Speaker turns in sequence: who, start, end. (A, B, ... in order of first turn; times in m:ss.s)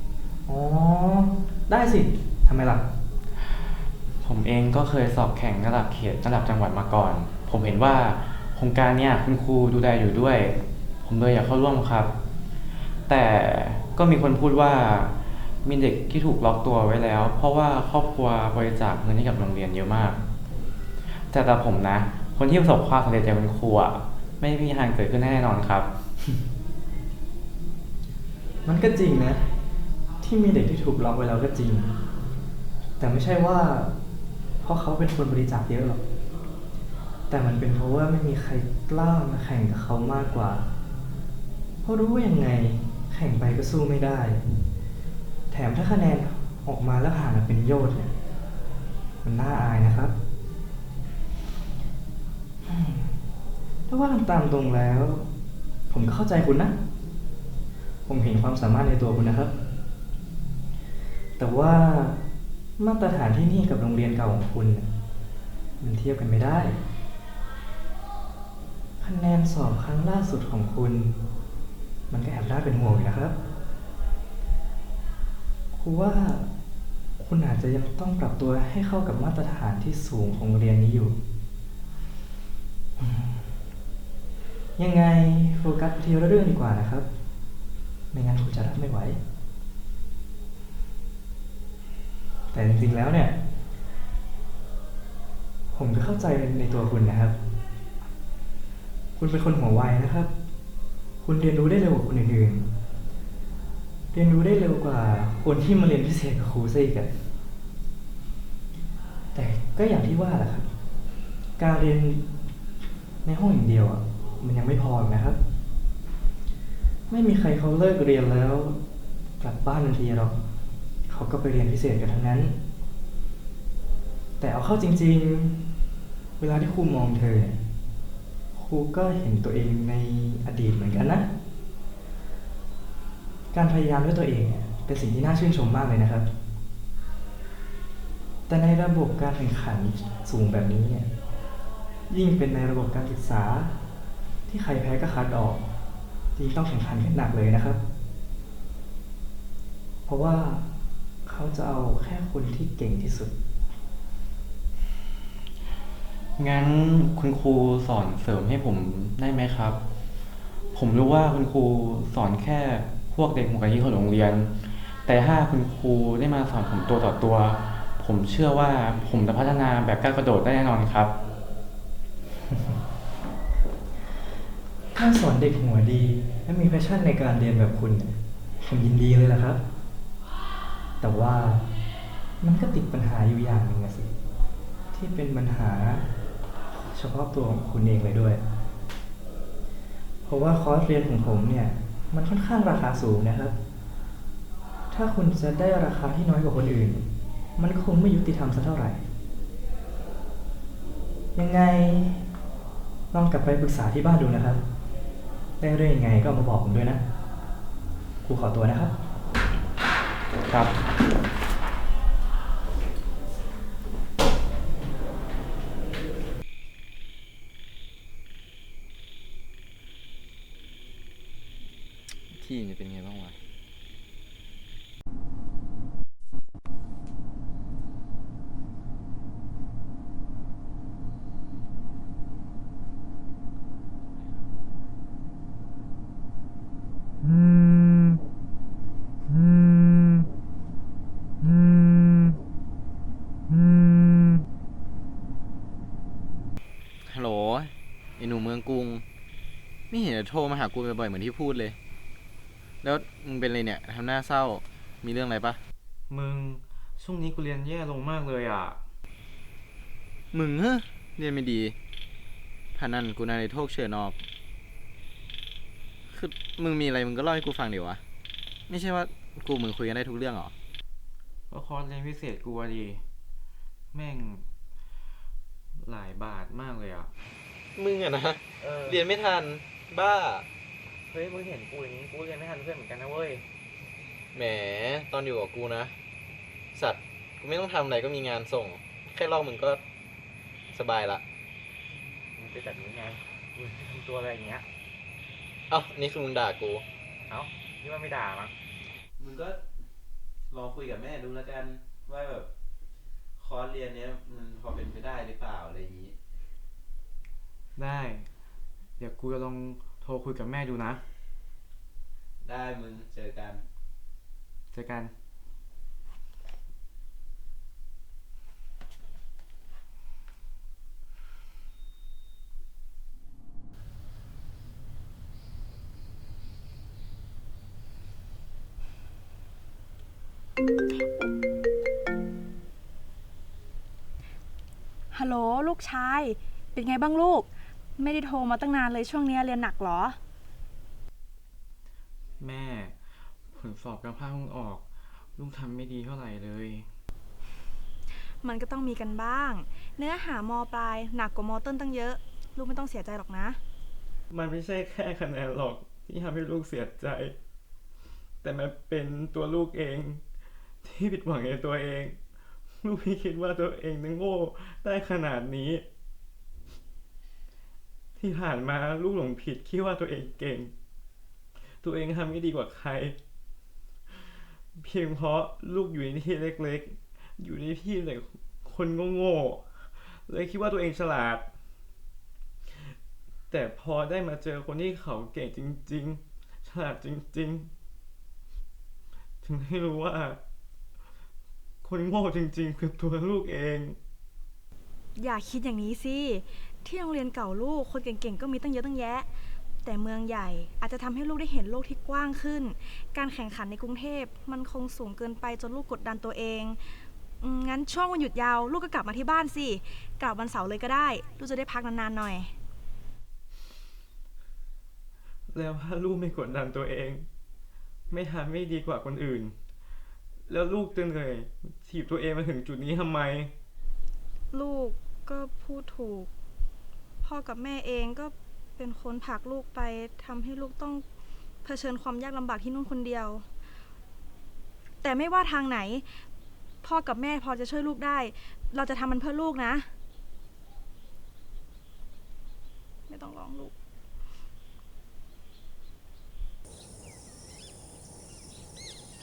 0:00.5-0:02.8 A
0:04.2-0:12.1 B
0:13.1-0:15.1 B
0:15.6-0:20.2 B
0:21.3-0:25.9 B
0:28.7-0:29.5 A
0:30.2-0:31.9 A
0:33.0-0:33.9 A
0:34.6-0:36.0 A
0:37.3-0:40.7 A
0:41.8-0:44.6 A
0:45.5-0:48.1 A
0:49.2-0:50.1 A
0:52.6-0:53.2 A
0:53.9-0:55.3 A
0:55.9-0:56.7 A
0:58.1-0:59.5 A
1:01.4-1:02.2 A
1:02.8-1:04.9 A
1:05.8-1:06.8 A
1:09.0-1:11.2 A
1:12.1-1:13.4 A
1:15.7-1:16.5 A
1:17.2-1:21.2 A
1:23.0-1:23.5 A
1:24.8-1:27.1 A
1:28.1-1:29.2 A
1:32.5-1:33.4 A
1:35.7-1:37.4 A
1:39.2-1:40.3 A
1:41.2-1:42.7 A
1:44.1-1:47.1 A
1:49.4-1:50.7 A
1:51.6-1:52.2 A
1:53.2-1:55.4 A
1:57.1-1:58.8 A
1:59.4-2:00.4 A
2:01.1-2:02.6 A
2:04.4-2:05.6 A
2:06.4-2:07.6 A
2:08.5-2:11.3 A
2:13.5-2:16.3 A
2:18.5-2:21.1 A
2:22.1-2:23.7 A
2:24.5-2:25.6 A
2:26.4-2:27.8 A
2:30.1-2:30.7 A
2:31.3-2:33.3 A
2:36.4-2:39.8 B
2:40.7-2:44.5 B
2:45.0-2:51.1 B
2:52.5-2:52.8 A
2:55.0-2:59.6 A
3:01.0-3:01.6 A
3:02.4-3:04.1 A
3:04.9-3:06.1 A
3:06.9-3:08.4 A
3:10.2-3:13.5 A
3:14.9-3:19.0 A
3:21.4-3:22.3 A
3:23.1-3:24.6 A
3:25.6-3:27.0 A
3:28.2-3:28.9 A
3:42.3-3:43.4 C
3:57.2-3:58.2 B
3:59.3-4:00.2 B
4:01.4-4:02.3 B
4:03.5-4:04.4 B
4:07.1-4:09.0 C
4:09.9-4:11.8 C
4:12.8-4:15.6 C
4:16.1-4:18.8 B
4:20.3-4:21.8 C
4:22.8-4:24.2 C
4:26.1-4:28.0 C
4:28.7-4:30.5 C
4:31.5-4:33.0 B
4:33.9-4:34.4 B
4:35.8-4:37.1 B
4:37.8-4:40.5 C
4:38.6-4:39.0 B
4:41.1-4:43.4 B
4:44.3-4:46.0 C
4:46.8-4:49.8 C
4:50.7-4:51.2 C
4:52.4-4:54.7 B
4:55.7-4:56.8 C
4:57.3-4:58.5 B
4:59.2-4:59.6 C
5:00.5-5:02.5 C
5:03.4-5:06.2 C
5:07.8-5:08.3 B
5:09.0-5:11.0 B
5:12.4-5:13.6 C
5:14.7-5:15.1 B
5:35.1-5:40.2 D
5:42.4-5:43.0 B
5:43.5-5:44.8 B
5:45.4-5:46.9 B
5:48.4-5:53.6 D
5:54.3-5:57.3 B
5:58.4-6:00.2 B
6:00.8-6:02.2 B
6:02.8-6:05.8 B
6:08.2-6:10.7 B
6:11.8-6:13.2 B
6:14.8-6:21.5 B
6:23.5-6:27.7 B
6:29.4-6:30.4 B
6:31.8-6:34.0 B
6:35.2-6:39.3 D
6:39.8-6:46.8 D
6:47.4-6:52.5 D
6:55.5-6:57.3 B
6:58.1-6:59.6 B
7:00.5-7:03.5 B
7:04.5-7:06.3 D
7:07.2-7:11.1 D
7:11.6-7:13.5 D
7:15.0-7:16.2 D
7:16.8-7:19.9 D
7:23.1-7:23.8 D